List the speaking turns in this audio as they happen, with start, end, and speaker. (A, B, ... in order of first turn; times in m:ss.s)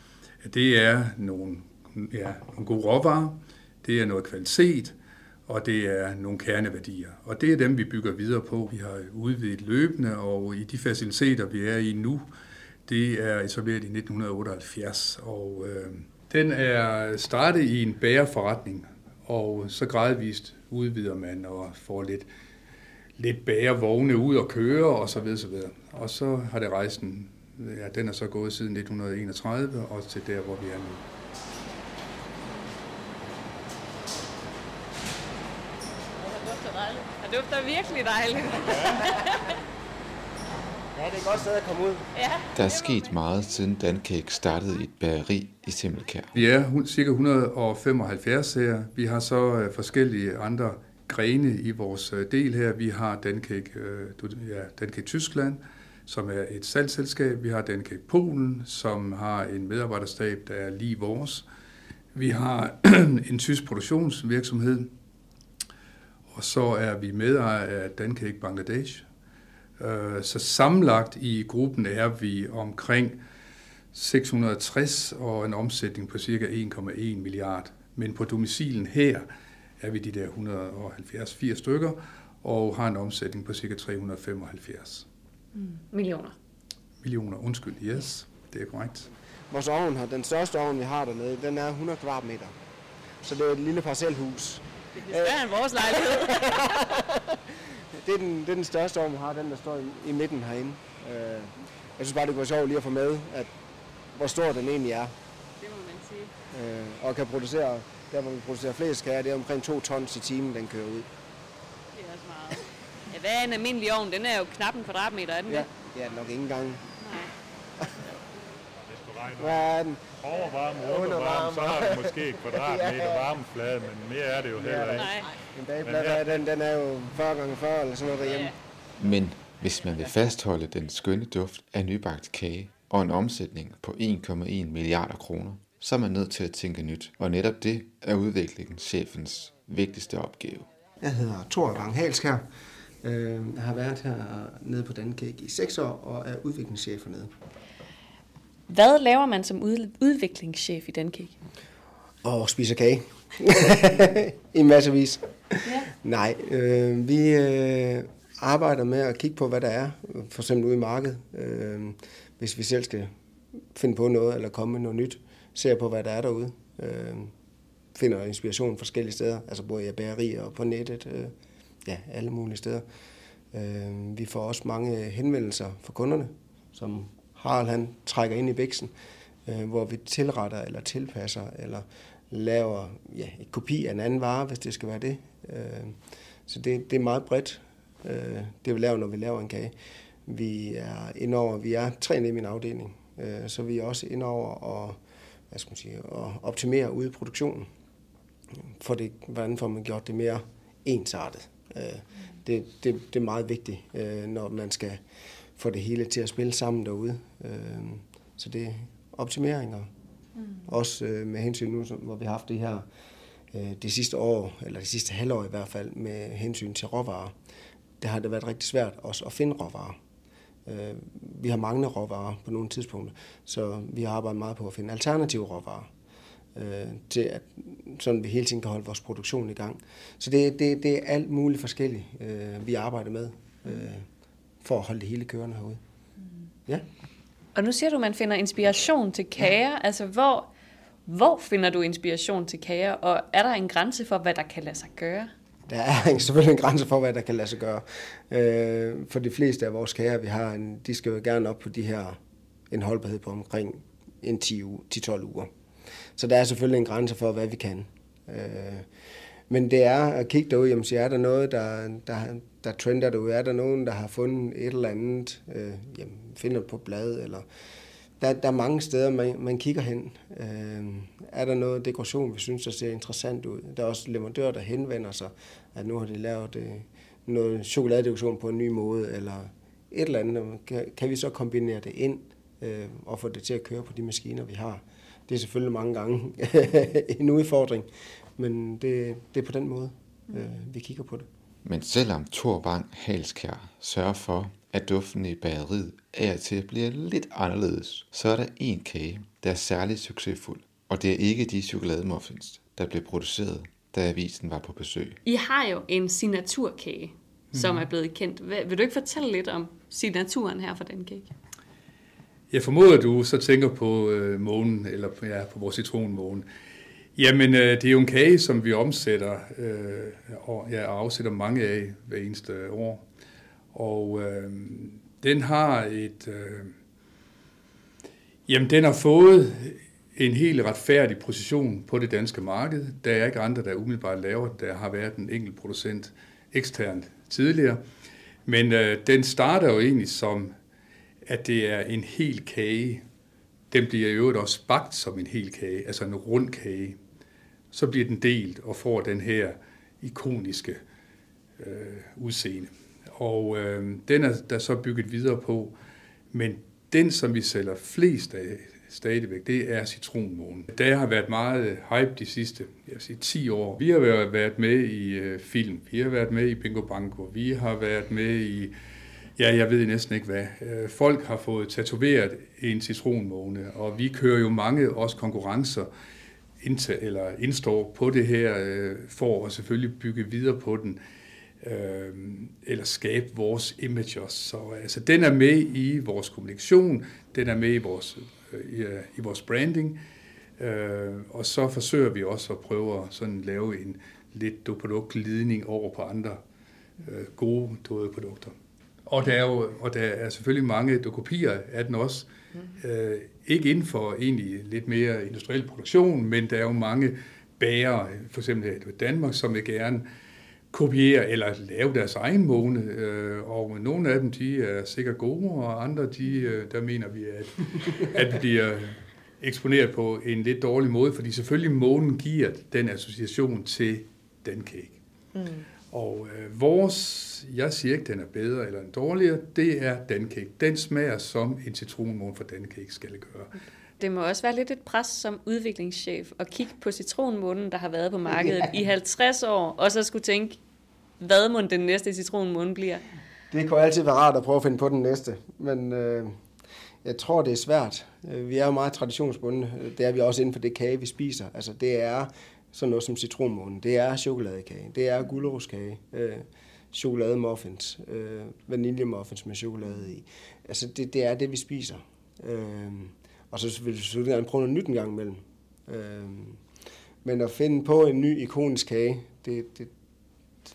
0:00.4-0:05.0 A
0:05.5-0:12.3 A
0:12.9-0:22.3 A
0:23.2-0:31.0 A
0:36.2-0:39.6 B
0:41.0-0:42.0 C
0:42.1-0:43.2 B
0:42.6-0:46.3 D
0:46.3-1:01.4 A
1:02.2-1:04.9 A
1:06.3-1:09.1 A
1:09.8-1:13.2 A
1:13.9-1:19.2 A
1:19.8-1:25.1 A
1:25.6-1:26.4 B
1:27.0-1:29.1 A
1:29.5-1:32.5 C
1:33.2-1:37.2 C
1:35.0-1:36.9 B
1:38.0-1:43.5 C
1:44.2-1:45.1 C
1:45.6-1:46.3 B
1:46.5-1:51.1 C
1:51.9-1:55.7 B
1:55.5-1:56.8 C
1:57.0-1:57.3 B
1:58.9-2:05.1 E
1:59.4-2:00.1 C
2:00.8-2:03.3 C
2:04.6-2:08.5 C
2:05.0-2:05.3 B
2:05.8-2:06.2 E
2:08.2-2:08.5 B
2:09.0-2:20.7 D
2:21.0-2:22.4 C
2:23.0-2:27.3 C
2:28.7-2:31.4 B
2:32.2-2:43.1 C
2:43.7-2:47.3 C
2:48.0-2:51.3 C
2:51.8-2:52.8 C
2:53.5-2:58.9 C
2:59.5-3:06.0 C
3:06.5-3:09.7 C
3:10.3-3:15.0 C
3:15.5-3:17.7 C
3:18.8-3:25.0 C
3:25.6-3:29.9 C
3:30.6-3:32.8 C
3:33.5-3:37.3 C
3:38.0-3:40.0 C
3:40.7-3:45.9 C
3:46.6-3:54.0 C
3:54.6-3:55.8 C
3:57.6-4:00.5 B
4:01.1-4:05.3 B
4:05.7-4:12.2 C
4:12.7-4:15.5 C
4:16.2-4:18.8 C
4:19.5-4:27.4 C
4:28.2-4:47.9 C
4:48.4-4:51.3 C
4:51.6-5:05.2 D
5:05.3-5:11.3 B
5:07.5-5:07.9 A
5:12.5-5:16.5 A
5:17.2-5:23.1 A
5:23.7-5:26.7 A
5:28.5-5:37.8 A
5:38.5-5:40.5 A
5:41.2-5:43.0 A
5:43.7-5:47.0 A
5:47.7-5:50.8 A
5:51.6-5:55.7 A
5:56.3-6:08.7 A
6:09.4-6:15.9 A
6:16.6-6:21.0 A
6:21.6-6:30.0 A
6:30.6-6:36.4 A
6:37.0-6:38.5 A
6:39.1-6:50.0 A
6:50.7-7:05.0 A
7:05.4-7:05.6 B
7:05.9-7:13.5 A
7:14.0-7:20.6 B
7:18.3-7:18.6 C
7:21.2-7:23.0 B
7:23.5-7:26.3 C
7:27.0-7:46.6 C
7:47.2-7:49.9 C